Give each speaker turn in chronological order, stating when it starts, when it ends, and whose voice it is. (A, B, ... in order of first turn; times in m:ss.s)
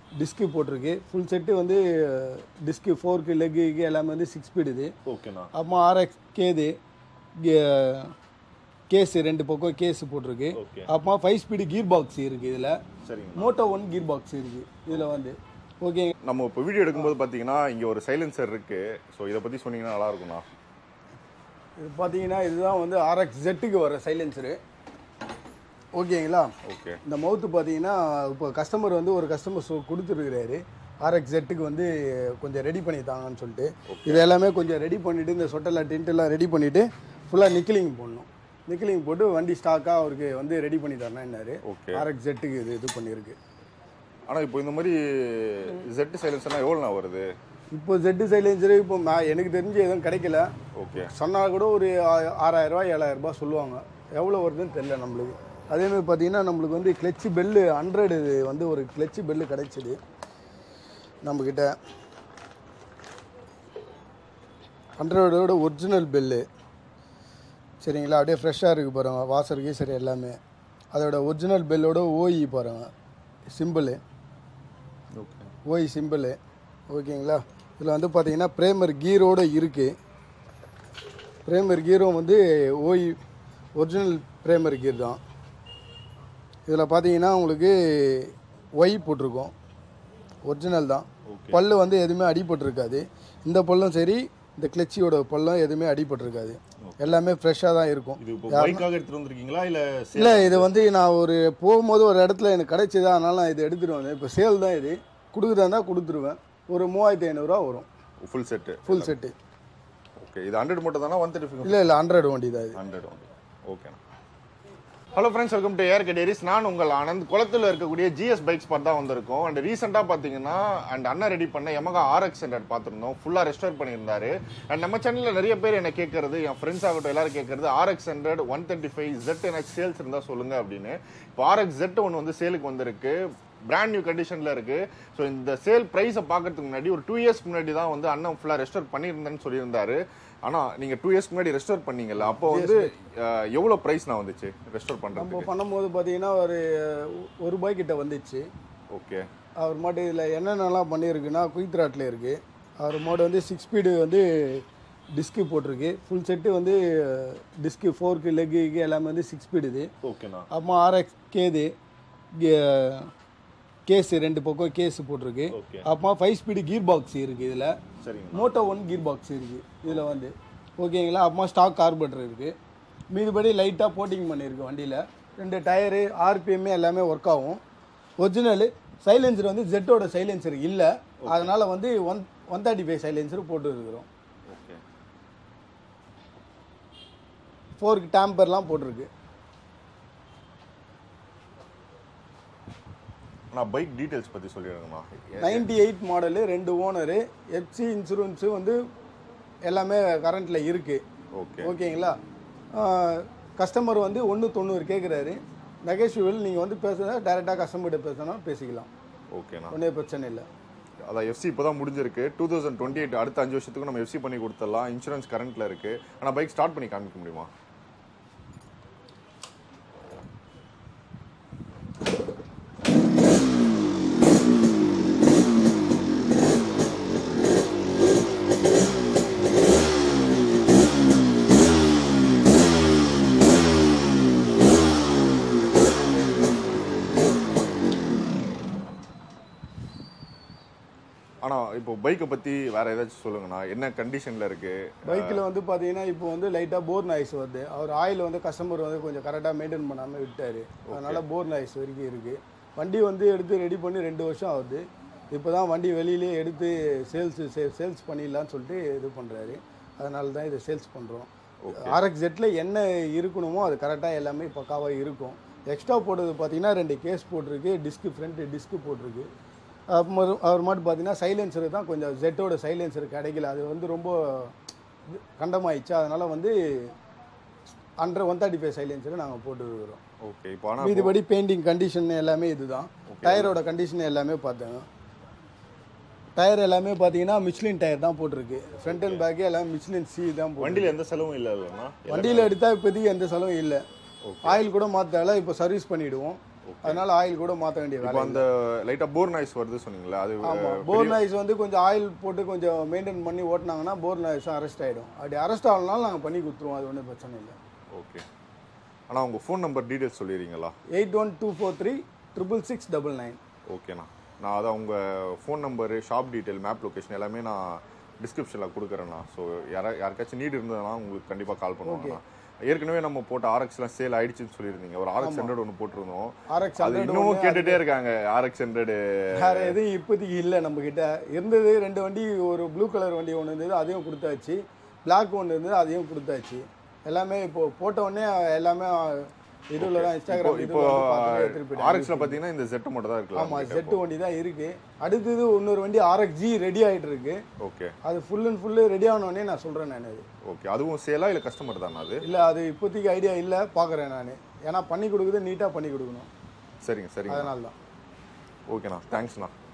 0:00.2-0:04.9 A
0:05.0-0:05.5 B
0:05.5-0:06.7 A
0:07.4-0:08.1 A
0:08.9-0:12.8 A
0:10.6-0:10.9 B
0:13.0-0:13.6 B
0:13.4-0:16.1 A
0:14.9-0:15.2 B
0:16.2-0:20.4 B
0:21.8-0:24.6 A
0:26.0-0:26.5 A
0:26.6-0:27.0 B
0:27.0-0:43.4 A
0:33.9-0:34.3 B
0:41.6-0:42.0 B
0:44.3-0:47.3 B
0:47.7-1:00.0 A
0:50.7-0:51.1 B
1:01.2-1:01.7 A
1:05.0-1:06.4 A
1:07.8-1:10.4 A
1:10.9-1:12.9 A
1:13.5-1:14.0 A
1:15.2-1:15.5 B
1:15.6-1:16.4 A
1:16.9-1:20.0 A
1:21.5-1:23.2 A
1:23.8-1:25.2 A
1:26.7-1:29.5 A
1:30.5-1:38.8 A
1:31.3-1:31.6 B
1:36.8-1:37.2 B
1:38.2-1:40.7 B
1:40.2-1:47.8 A
1:48.2-1:49.2 B
1:48.9-1:49.3 A
1:50.2-1:51.9 B
1:51.6-1:52.8 A
1:52.7-1:54.0 B
1:55.1-2:25.5 B
2:22.2-2:22.9 A
2:25.1-2:28.4 A
2:28.9-2:29.2 B
2:29.6-2:34.6 A
2:35.1-2:39.9 A
2:40.0-2:40.5 B
2:40.5-2:41.7 A
2:42.4-2:43.1 A
2:43.9-2:47.8 A
2:45.5-2:45.8 B
2:48.0-2:48.7 B
2:48.3-2:52.5 A
2:49.8-2:50.2 B
2:53.1-2:57.6 A
2:58.2-3:04.1 A
3:01.2-3:01.5 B
3:04.5-3:04.8 B
3:07.8-3:09.1 A
3:13.5-3:15.7 B
3:15.4-3:18.8 A
3:19.7-3:21.0 A
3:21.3-3:21.8 B
3:21.6-3:22.2 A
3:22.7-3:28.9 A
3:29.3-3:29.7 B
3:29.7-3:30.4 A
3:31.1-3:37.5 B
4:01.4-4:05.4 B
4:05.0-4:29.3 A
4:10.9-4:11.2 B
4:21.6-4:22.0 B
4:29.9-4:34.5 A
4:35.1-4:36.9 A
4:38.0-4:40.0 A
4:40.2-4:41.2 B
4:40.8-4:44.8 A
4:43.1-4:43.6 B
4:46.4-4:50.9 A
4:48.8-4:49.2 B
4:50.6-4:52.5 B
4:52.1-4:53.8 A
4:54.2-4:54.6 B
4:54.4-4:58.4 A
4:56.7-4:57.0 B
4:58.0-5:01.2 B
5:00.4-5:07.5 A
5:07.9-5:08.2 B
5:09.1-5:10.7 B
5:10.9-5:13.4 A
5:13.7-5:29.8 B
5:21.8-5:22.2 A
5:25.2-5:25.5 A
5:26.5-5:27.8 A
5:29.3-5:42.4 A
5:39.8-5:44.0 B
5:43.3-5:47.4 A
5:47.6-5:47.9 B
5:48.0-5:50.2 A
5:50.4-5:52.2 B
5:52.2-5:56.3 A
5:56.8-5:57.5 B
5:57.3-5:57.7 A
5:58.7-5:59.5 B